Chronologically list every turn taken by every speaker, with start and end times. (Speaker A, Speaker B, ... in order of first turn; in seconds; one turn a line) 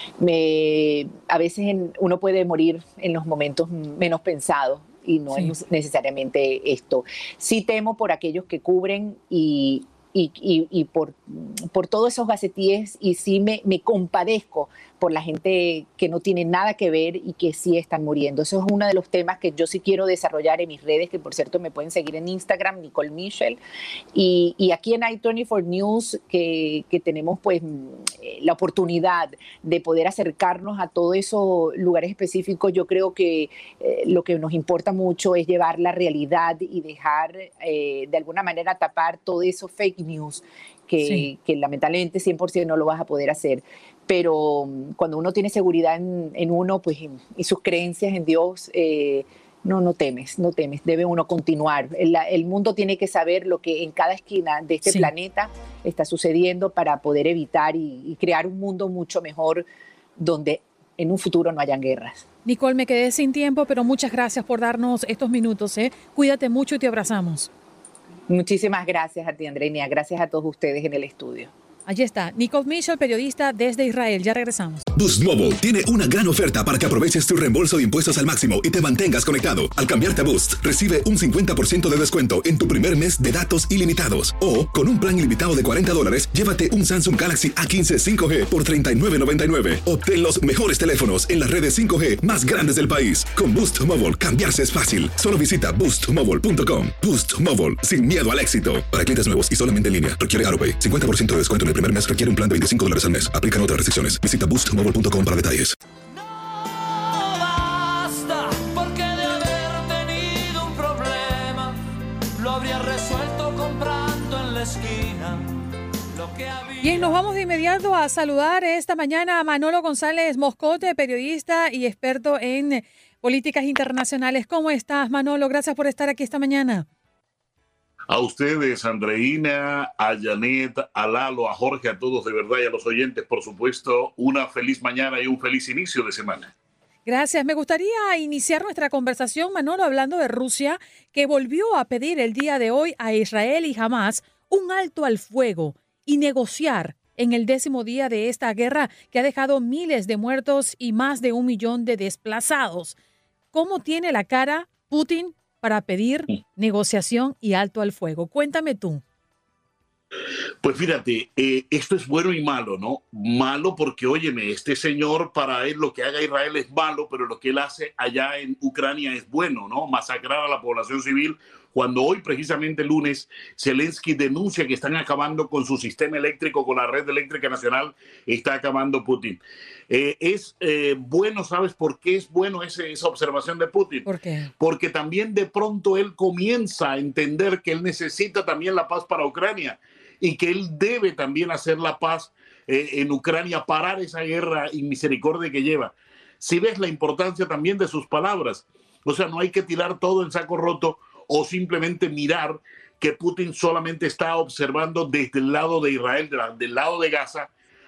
Speaker A: 0.2-23.6
Speaker A: 24.1-59.6
Speaker B: 41.0-41.3
Speaker A: 60.2-62.2
Speaker B: 62.4-67.5
Speaker A: 68.3-71.5
Speaker B: 71.9-74.8
Speaker C: 74.9-105.7
Speaker D: 106.1-111.8
Speaker D: 112.3-115.5
Speaker D: 116.1-117.2
Speaker B: 116.8-126.8
Speaker E: 128.1-136.5
Speaker B: 137.1-152.9
Speaker B: 153.5-159.0
Speaker E: 160.6-184.1
Speaker B: 184.0-184.5
Speaker E: 184.6-207.5